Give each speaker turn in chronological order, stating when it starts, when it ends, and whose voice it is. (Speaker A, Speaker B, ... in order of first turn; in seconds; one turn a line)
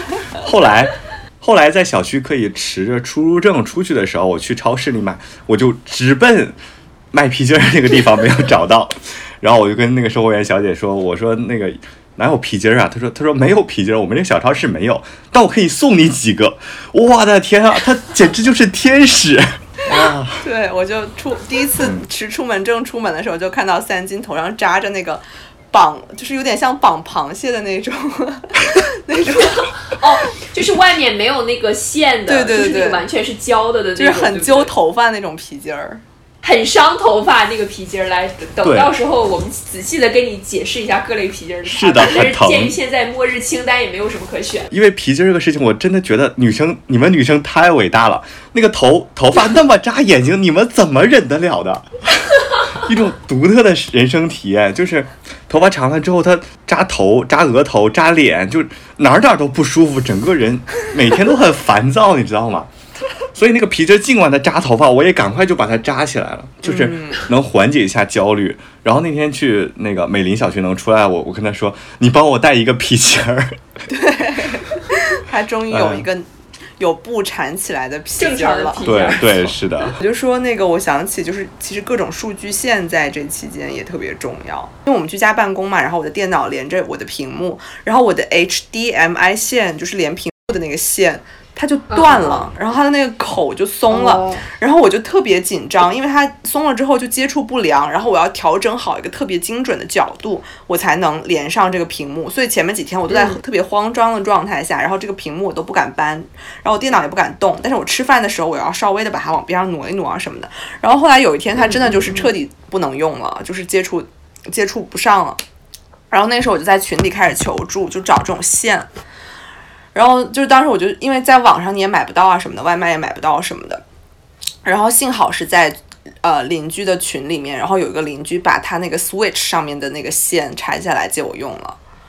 Speaker A: 0.3-6.5
Speaker A: 7.1-20.4
Speaker B: 20.4-29.7
Speaker C: 29.4-34.7
Speaker B: 32.3-33.0
Speaker B: 34.0-36.0
Speaker C: 36.4-44.7
Speaker A: 38.6-38.9
Speaker A: 41.7-42.7
Speaker A: 44.7-62.7
Speaker A: 63.3-73.6
Speaker B: 66.6-67.2
Speaker B: 73.9-78.9
Speaker A: 75.7-76.0
Speaker C: 78.2-79.5
Speaker A: 78.8-80.0
Speaker B: 80.0-115.4
Speaker C: 91.9-92.5
Speaker C: 93.9-94.4
Speaker C: 103.1-103.3
Speaker C: 111.6-112.3
Speaker B: 116.1-118.9
Speaker B: 119.9-123.8
Speaker B: 124.6-131.8